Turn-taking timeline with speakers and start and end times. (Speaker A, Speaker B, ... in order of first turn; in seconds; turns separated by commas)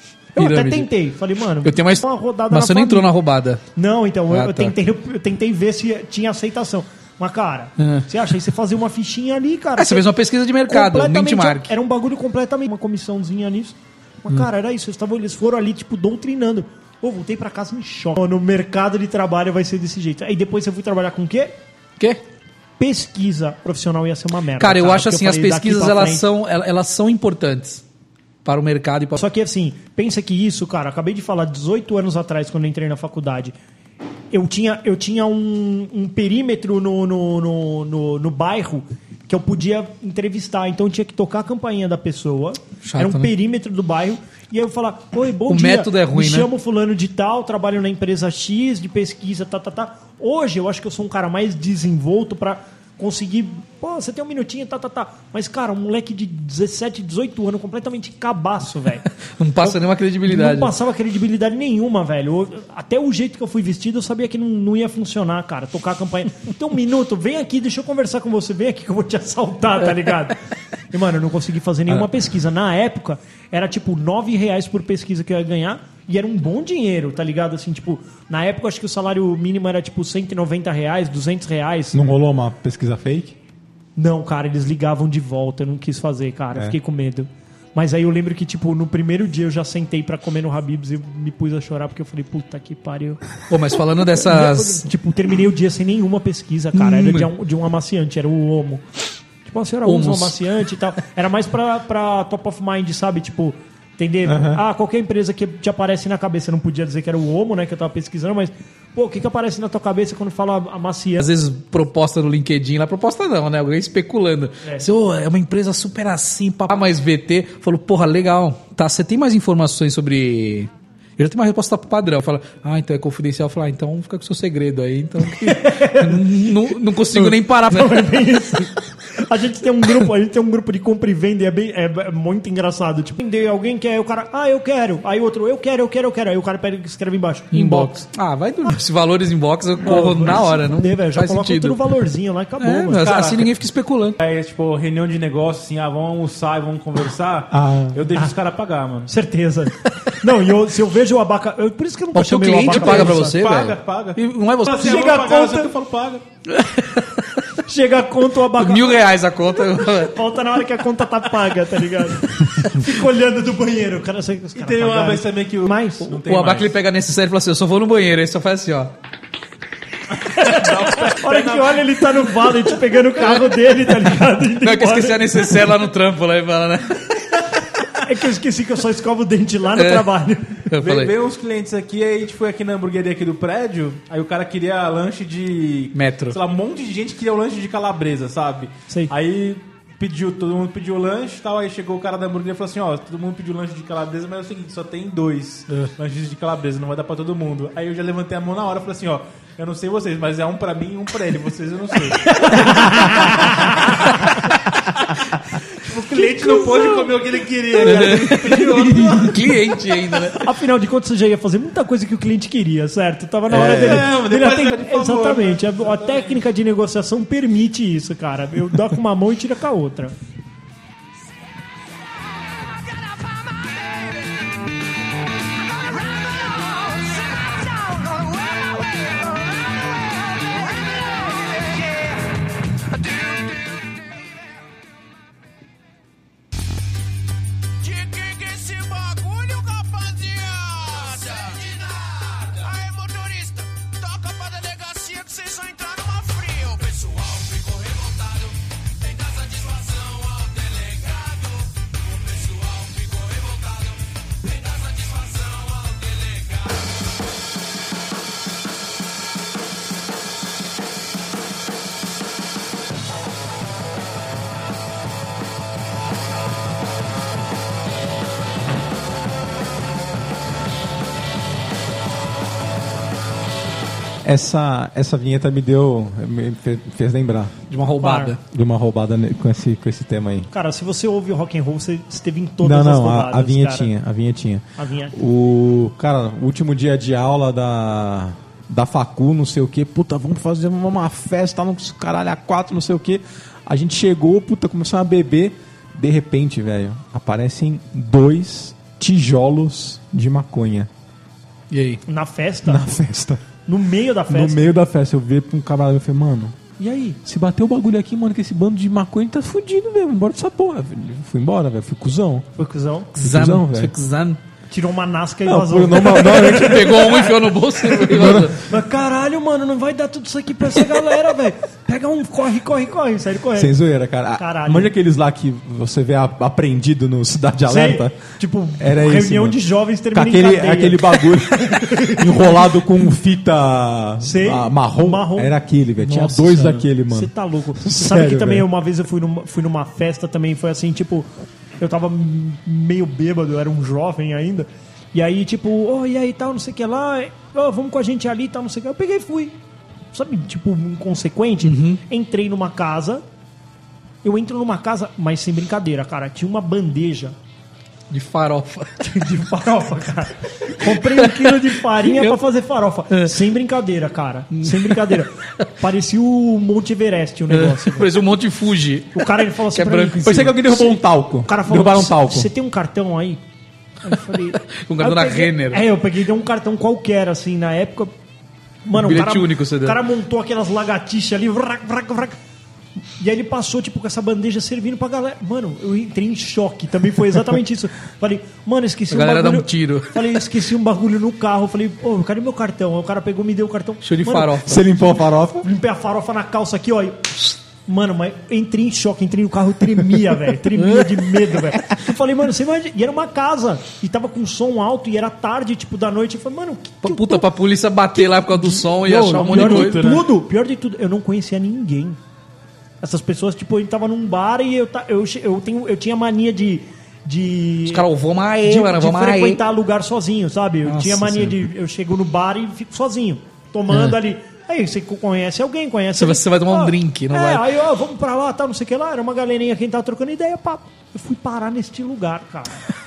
Speaker A: 0.4-3.1, Speaker B: 0.4-0.9, Speaker B: 1.6-3.6, Speaker A: 3.8-10.1, Speaker B: 4.3-4.7, Speaker B: 7.8-8.1, Speaker B: 9.8-11.7, Speaker A: 10.7-21.6, Speaker A: 22.8-26.2, Speaker B: 24.6-27.8, Speaker B: 28.4-29.2, Speaker A: 29.2-33.5, Speaker A: 34.3-59.1, Speaker B: 42.8-43.3, Speaker B: 45.5-46.5, Speaker B: 59.4-60.7, Speaker A: 59.6-70.4, Speaker A: 70.9-82.0, Speaker C: 81.9-83.4, Speaker A: 84.0-93.2, Speaker B: 93.5-94.9, Speaker A: 94.0-98.8, Speaker B: 96.8-97.3, Speaker A: 99.4-111.3, Speaker B: 99.8-100.4, Speaker C: 104.2-104.6, Speaker B: 111.2-128.3, Speaker A: 125.3-138.1, Speaker B: 137.5-141.8, Speaker A: 139.8-143.1, Speaker B: 142.6-144.2, Speaker D: 142.9-143.5, Speaker D: 144.2-149.1, Speaker C: 147.5-148.1, Speaker A: 149.1-153.4, Speaker B: 152.2-155.1, Speaker D: 152.7-156.2, Speaker A: 154.7-155.7, Speaker B: 156.5-157.5, Speaker A: 157.7-159.1, Speaker B: 158.5-160.2, Speaker A: 159.7-166.2, Speaker D: 164.6-166.7, Speaker B: 166.1-168.9, Speaker D: 170.2-172.0, Speaker A: 170.2-175.7, Speaker B: 174.5-177.4, Speaker A: 177.9-180.7, Speaker B: 179.8-180.1, Speaker B: 180.7-181.1, Speaker D: 180.8-204.3, Speaker B: 185.9-186.4, Speaker A: 202.2-204.5, Speaker D: 205.7-209.7, Speaker A: 206.1-207.1, Speaker A: 207.7-209.3, Speaker B: 207.8-210.5, Speaker A: 210.3-220.2, Speaker D: 213.5-216.4, Speaker C: 213.6-214.0, Speaker E: 222.4-224.6, Speaker E: 225.6-232.3, Speaker E: 232.9-234.3, Speaker E: 237.8-256.7, Speaker C: 274.2-277.6, Speaker B: 277.7-278.4, Speaker A: 278.0-278.4, Speaker C: 278.4-280.5, Speaker A: 280.5-283.9, Speaker C: 282.6-300.9, Speaker A: 284.8-285.1, Speaker B: 301.7-302.0, Speaker A: 302.1-302.9, Speaker C: 302.7-303.4, Speaker A: 303.7-304.7, Speaker C: 304.3-306.6, Speaker A: 306.8-307.2, Speaker C: 307.2-312.5, Speaker A: 312.6-313.2, Speaker B: 313.2-314.4, Speaker C: 313.2-313.9, Speaker A: 314.7-323.8, Speaker C: 315.5-317.0, Speaker B: 316.1-318.6, Speaker C: 318.1-318.6, Speaker C: 323.6-328.2, Speaker A: 324.4-324.9, Speaker A: 327.7-332.8, Speaker C: 328.8-329.6, Speaker C: 330.1-338.7, Speaker A: 334.2-335.5, Speaker B: 336.1-336.8, Speaker A: 337.1-341.3, Speaker A: 341.8-349.6, Speaker A: 350.1-353.2, Speaker B: 351.6-352.0, Speaker A: 354.2-357.4, Speaker B: 358.1-359.0, Speaker A: 359.0-368.2, Speaker B: 360.8-362.4, Speaker B: 364.6-365.2, Speaker B: 367.5-370.5, Speaker A: 369.1-373.4, Speaker C: 370.2-372.5, Speaker A: 374.0-378.1, Speaker B: 374.6-375.8, Speaker A: 378.9-382.4, Speaker B: 378.9-380.0, Speaker A: 383.2-394.6, Speaker B: 389.1-390.4, Speaker B: 394.0-394.8, Speaker C: 394.6-395.7, Speaker A: 395.6-407.5, Speaker B: 400.8-401.5, Speaker B: 407.0-410.2, Speaker A: 408.1-412.2, Speaker D: 409.1-410.3, Speaker A: 413.0-418.1, Speaker B: 417.9-419.6, Speaker A: 418.6-432.8, Speaker B: 420.9-421.6, Speaker B: 423.9-424.2, Speaker B: 426.2-427.7